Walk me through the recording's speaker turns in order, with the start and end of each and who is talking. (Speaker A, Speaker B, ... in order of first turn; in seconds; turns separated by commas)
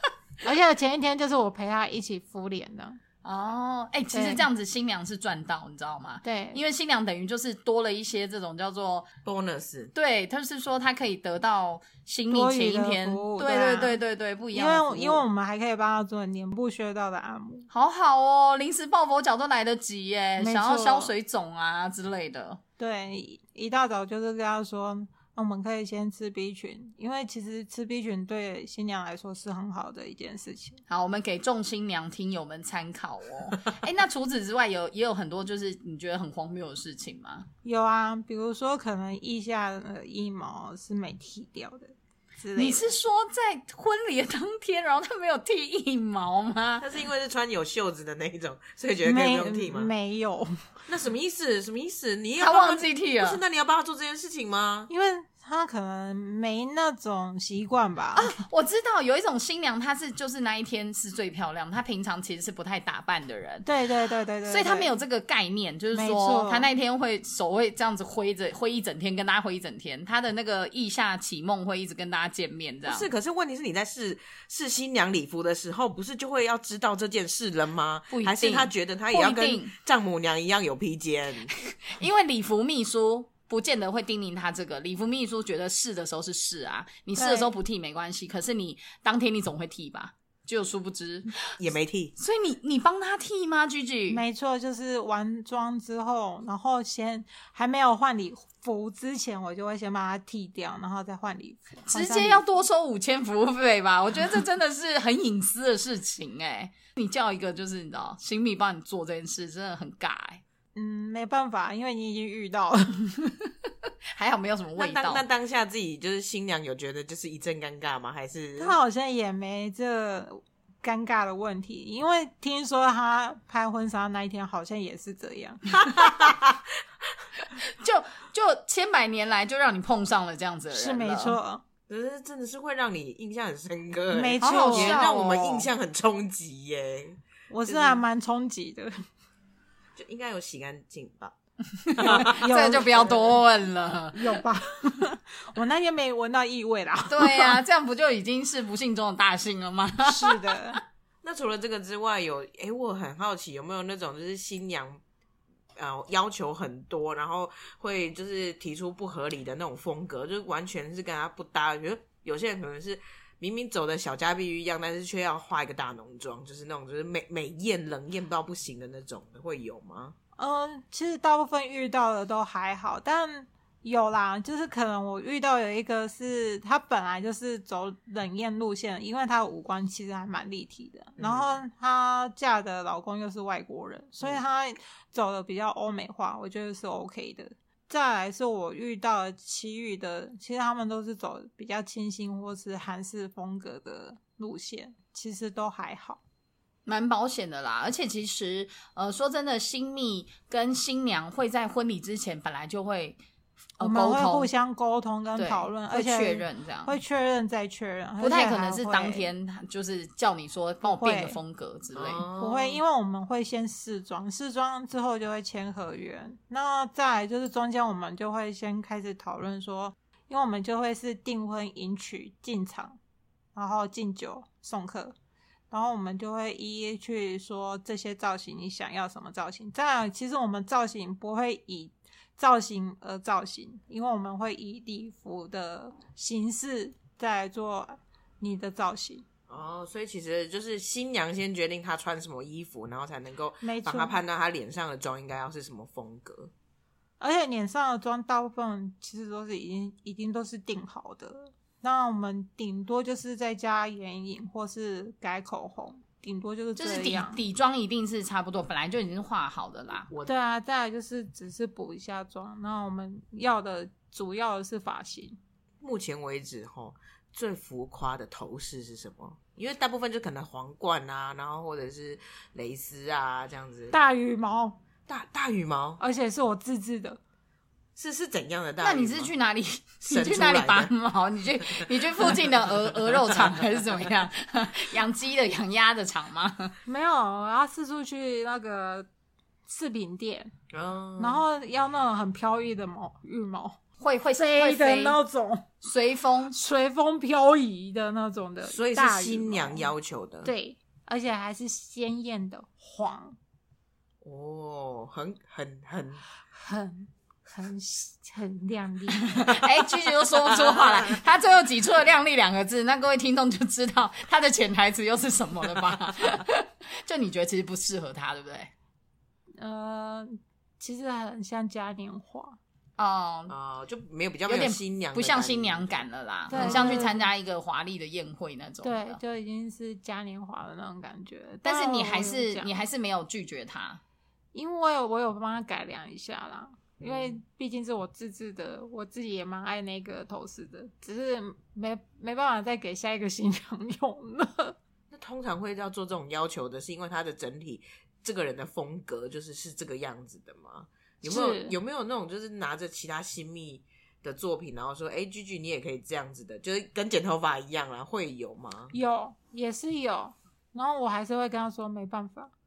Speaker A: 0.4-3.0, Speaker B: 3.2-9.1, Speaker A: 4.1-4.5, Speaker A: 6.2-6.6, Speaker C: 9.2-9.9, Speaker B: 9.9-15.2, Speaker A: 12.3-14.0, Speaker A: 14.5-17.7, Speaker B: 17.7-22.6, Speaker A: 20.4-21.1, Speaker A: 22.8-30.8, Speaker B: 30.9-37.5, Speaker A: 37.6-42.9, Speaker B: 42.5-46.8, Speaker C: 46.8-49.9, Speaker A: 49.0-50.6, Speaker C: 50.9-54.9, Speaker B: 52.4-53.4, Speaker A: 54.9-58.3, Speaker B: 58.1-63.7, Speaker A: 63.6-64.9, Speaker B: 64.5-73.1, Speaker A: 65.9-66.7, Speaker C: 72.8-81.5, Speaker B: 78.1-79.7, Speaker B: 81.5-91.4, Speaker A: 87.2-87.5, Speaker C: 91.6-92.1, Speaker B: 92.2-94.2, Speaker A: 94.1-102.6, Speaker B: 101.9-110.4, Speaker A: 110.7-113.1, Speaker B: 113.2-115.2, Speaker C: 114.8-118.8, Speaker A: 118.6-125.6, Speaker C: 125.8-126.6, Speaker B: 127.5-131.4, Speaker A: 130.7-131.6, Speaker C: 131.9-138.0, Speaker A: 134.1-135.1, Speaker B: 134.4-135.7, Speaker A: 137.5-138.9, Speaker C: 139.9-141.3, Speaker B: 141.8-144.4, Speaker C: 141.9-143.1, Speaker A: 142.1-143.1, Speaker A: 144.1-147.6, Speaker B: 147.1-150.8, Speaker A: 150.1-150.8, Speaker C: 151.2-155.0, Speaker C: 155.8-170.1, Speaker A: 170.4-196.2, Speaker C: 181.2-181.5, Speaker B: 196.8-203.2, Speaker B: 203.8-204.5, Speaker A: 203.8-209.3, Speaker B: 205.4-206.9, Speaker B: 208.2-212.2, Speaker A: 210.8-211.4, Speaker C: 211.9-212.8, Speaker A: 212.4-223.0, Speaker A: 223.5-225.2, Speaker A: 225.7-239.2, Speaker C: 239.5-246.5, Speaker A: 243.6-244.2, Speaker A: 247.2-257.4, Speaker B: 256.8-260.1, Speaker A: 260.2-265.4, Speaker C: 265.8-273.9, Speaker A: 273.9-274.8, Speaker C: 275.1-276.0, Speaker A: 276.0-277.2, Speaker C: 278.0-279.3, Speaker B: 278.8-286.8, Speaker C: 280.0-280.9, Speaker C: 281.7-282.4, Speaker C: 283.1-283.6, Speaker A: 286.9-289.1, Speaker A: 289.6-290.5, Speaker C: 290.7-291.4, Speaker A: 291.2-293.8, Speaker B: 294.0-295.2, Speaker A: 294.3-295.7, Speaker B: 295.8-296.6, Speaker A: 296.5-299.9, Speaker C: 298.6-300.5, Speaker A: 300.4-303.4, Speaker C: 304.2-306.2, Speaker A: 306.5-309.4, Speaker B: 309.3-318.7, Speaker A: 319.6-322.6, Speaker B: 323.0-323.5, Speaker C: 323.5-327.1, Speaker B: 324.5-329.2, Speaker A: 326.5-327.3, Speaker A: 328.8-332.7, Speaker B: 331.6-334.0, Speaker A: 334.5-344.8, Speaker C: 337.0-337.4, Speaker C: 345.1-358.9, Speaker A: 351.2-351.8, Speaker A: 358.9-362.5